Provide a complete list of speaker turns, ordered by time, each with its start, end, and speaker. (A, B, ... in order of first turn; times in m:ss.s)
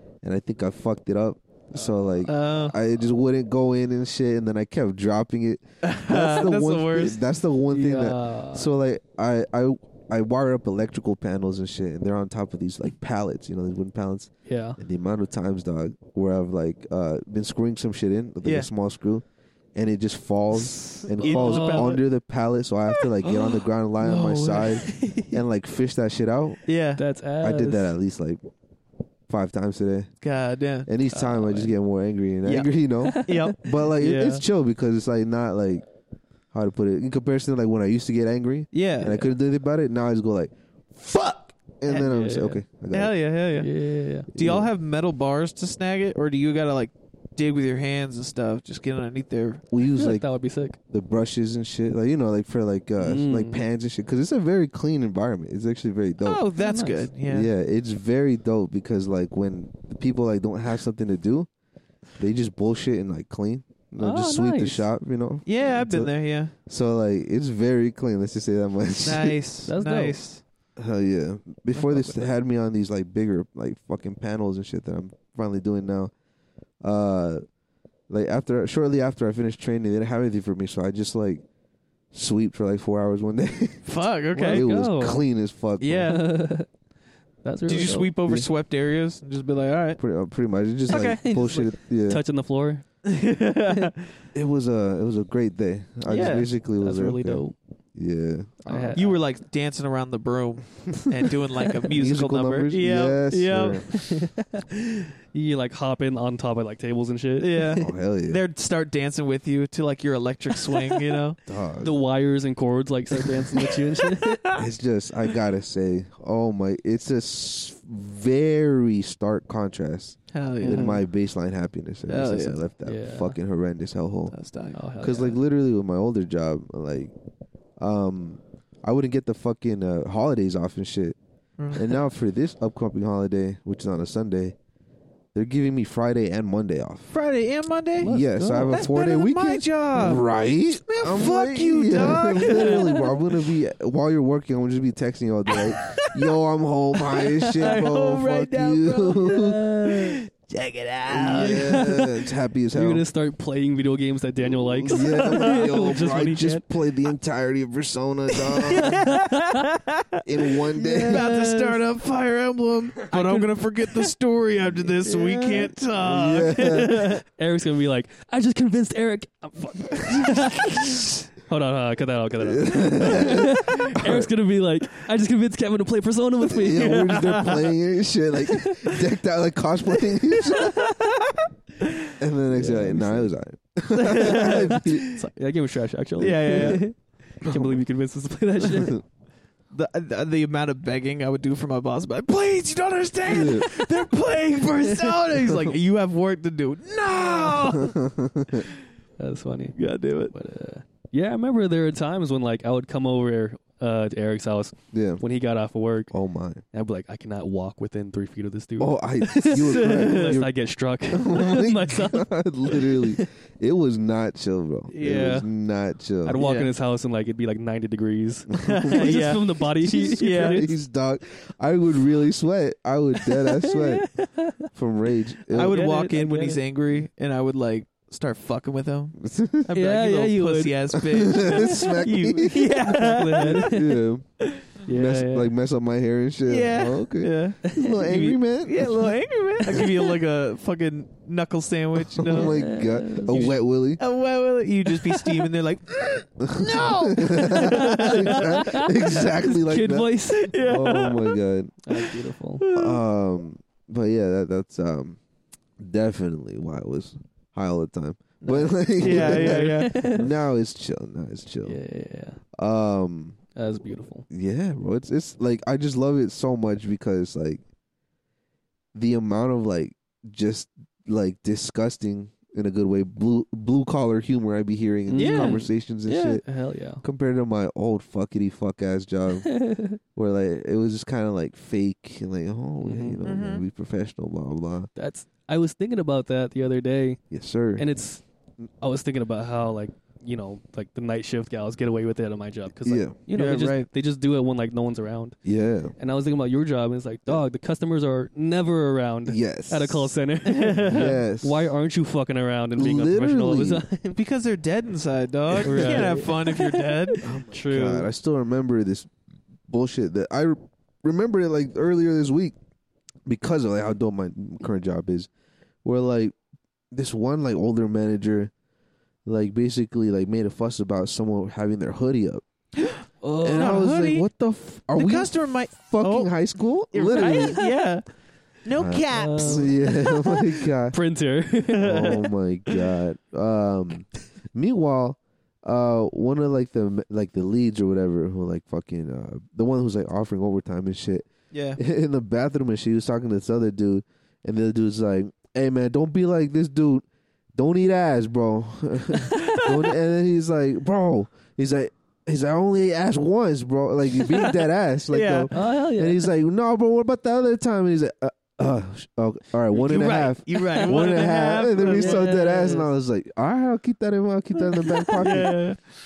0:00.2-0:26.6 A
0:01.7-0:02.3 B
0:02.2-0:02.8 C
0:05.8-0:07.2 C
0:07.7-0:08.7 B
0:14.5-0:14.8 B
0:18.4-0:18.7 C
0:20.7-0:22.0 B
0:20.9-0:22.0 C
0:24.0-0:24.8 C
0:24.7-0:25.4 B
0:26.6-0:27.0 C
0:27.0-0:27.9 B
0:27.4-0:28.4 A
0:29.3-0:30.1 A
0:30.2-0:30.9 C
0:30.8-0:35.8 A
0:31.1-0:31.7 B
0:32.4-0:32.7 C
0:33.0-0:33.6 B
0:33.2-0:34.4 C
0:36.5-0:43.1 A
0:38.7-0:39.2 C
0:41.9-0:42.6 B
0:42.9-0:43.7 C
0:43.6-0:44.3 B
0:44.3-0:44.7 A
0:44.3-0:49.6 C
0:49.7-0:50.2 A
0:49.9-0:50.8 B
0:50.9-0:56.4 A
0:53.0-0:53.6 B
0:56.2-0:57.5 C
0:56.6-0:57.1 B
0:57.3-1:01.5 A
1:02.2-1:06.1 A
1:04.0-1:04.8 B
1:05.4-1:06.5 C
1:06.6-1:09.4 A
1:09.0-1:10.4 C
1:09.7-1:10.2 B
1:10.8-1:16.1 A
1:11.9-1:12.2 C
1:16.8-1:17.4 A
1:18.1-1:21.4 A
1:22.1-1:26.2 A
1:23.8-1:24.7 C
1:24.4-1:25.2 B
1:25.8-1:26.2 C
1:26.0-1:26.7 B
1:27.4-1:28.1 B
1:27.7-1:30.0 C
1:30.0-1:32.2 A
1:30.9-1:31.2 C
1:30.9-1:32.8 B
1:33.0-1:34.0 C
1:34.3-1:37.4 A
1:36.1-1:36.5 C
1:36.1-1:37.5 B
1:38.0-1:39.0 A
1:38.7-1:39.2 B
1:38.9-1:44.2 C
1:42.0-1:43.9 A
1:44.0-1:47.8 B
1:47.4-1:51.4 C
1:47.8-1:48.4 A
1:51.4-1:51.9 A
1:51.8-1:54.4 B
1:53.2-1:54.6 C
1:54.6-2:04.3 A
2:00.3-2:01.0 C
2:00.6-2:01.0 B
2:02.1-2:02.6 C
2:02.8-2:03.4 B
2:04.3-2:04.8 C
2:04.7-2:05.4 B
2:05.0-2:07.1 A
2:07.8-2:11.2 A
2:11.6-2:12.0 C
2:11.7-2:14.6 A
2:15.3-2:17.1 A
2:17.1-2:20.3 C
2:18.0-2:18.9 B
2:18.0-2:29.6 A
2:20.8-2:23.0 C
2:22.4-2:22.9 B
2:25.8-2:26.3 C
2:27.1-2:31.9 C
2:27.4-2:27.8 B
2:29.3-2:30.2 B
2:31.1-2:33.0 A
2:31.3-2:36.6 B
2:34.4-2:39.1 A
2:34.9-2:35.6 C
2:38.4-2:40.2 C
2:38.8-2:39.6 B
2:40.2-2:41.3 A
2:40.8-2:47.2 C
2:40.9-2:41.8 B
2:43.1-2:44.1 B
2:45.0-2:45.8 B
2:46.0-2:47.1 A
2:46.7-2:57.6 B
2:50.0-2:50.7 A
2:52.4-2:54.3 A
2:56.4-3:00.9 A
2:57.1-2:57.6 C
2:58.5-2:59.0 B
3:00.4-3:02.1 C
3:02.2-3:05.0 A
3:02.5-3:03.3 B
3:03.9-3:05.1 C
3:04.1-3:09.0 B
3:06.2-3:06.8 C
3:06.3-3:06.8 A
3:07.4-3:07.8 A
3:08.6-3:09.0 A
3:09.7-3:18.0 C
3:13.3-3:13.7 A
3:15.5-3:15.7 A
3:17.5-3:18.7 A
3:19.2-3:19.8 B
3:19.8-3:20.3 C
3:20.3-3:26.1 B
3:24.9-3:25.2 A
3:26.1-3:26.6 A
3:26.7-3:33.2 B
3:28.8-3:30.5 A
3:29.4-3:30.4 C
3:31.1-3:36.4 A
3:34.9-3:35.4 B
3:36.2-3:40.7 B
3:36.4-3:36.7 C
3:38.6-3:39.2 A
3:38.6-3:40.6 C
3:40.0-3:44.1 A
3:43.3-3:44.6 B
3:44.7-3:45.8 A
3:45.5-3:53.7 C
3:45.5-3:46.6 B
3:49.2-3:49.7 A
3:49.7-3:50.8 B
3:51.0-3:54.2 A
3:52.9-3:54.0 B
3:54.8-3:55.5 B
3:54.9-3:59.1 A
3:56.5-4:02.6 C
3:57.7-3:58.1 B
3:59.7-4:00.0 B
4:02.2-4:04.0 A
4:02.3-4:03.5 B
4:03.3-4:09.2 C
4:05.1-4:05.4 B
4:06.4-4:11.8 A
4:07.5-4:10.5 B
4:10.3-4:11.4 C
4:11.8-4:12.6 B
4:12.6-4:13.0 C
4:12.7-4:15.2 A
4:15.8-4:21.8 A
4:18.4-4:20.3 B
4:19.0-4:20.2 C
4:21.6-4:22.4 B
4:22.6-4:23.4 A
4:23.5-4:24.2 B
4:24.3-4:27.6 A
4:28.9-4:36.4 A
4:35.1-4:37.0 B
4:35.1-4:35.6 C
4:37.0-4:39.5 A
4:39.4-4:40.0 B
4:40.1-4:44.9 A
4:42.8-4:43.2 B
4:43.2-4:43.6 C
4:45.0-4:47.2 B
4:47.3-4:47.8 A
4:47.8-4:48.2 B
4:48.8-4:55.4 B
4:52.8-4:53.2 A
4:53.3-4:53.9 C
4:55.4-4:55.9 A
4:56.0-5:04.2 B
4:59.2-5:00.1 A
5:00.5-5:01.0 C
5:00.8-5:01.6 A
5:02.8-5:03.8 A
5:04.1-5:07.2 C
5:05.6-5:08.1 B
5:05.7-5:06.1 A
5:07.2-5:09.1 A
5:09.7-5:12.5 A
5:13.2-5:15.3 A
5:15.8-5:16.3 A
5:16.9-5:18.5 A
5:19.2-5:22.4 A
5:22.8-5:24.3 C
5:23.2-5:23.8 B
5:23.4-5:27.6 A
5:25.0-5:26.3 C
5:26.9-5:28.0 C
5:27.3-5:27.7 B
5:28.6-5:30.3 C
5:28.8-5:31.0 A
5:29.1-5:29.8 B
5:30.9-5:32.2 B
5:31.8-5:32.8 C
5:31.8-5:47.0 A
5:41.5-5:41.8 C
5:47.6-6:05.6 A
5:49.2-5:49.9 C
5:54.3-5:55.5 C
5:55.5-5:56.3 B
5:59.7-6:02.3 C
6:00.8-6:01.3 B
6:01.8-6:02.9 B
6:05.0-6:05.8 C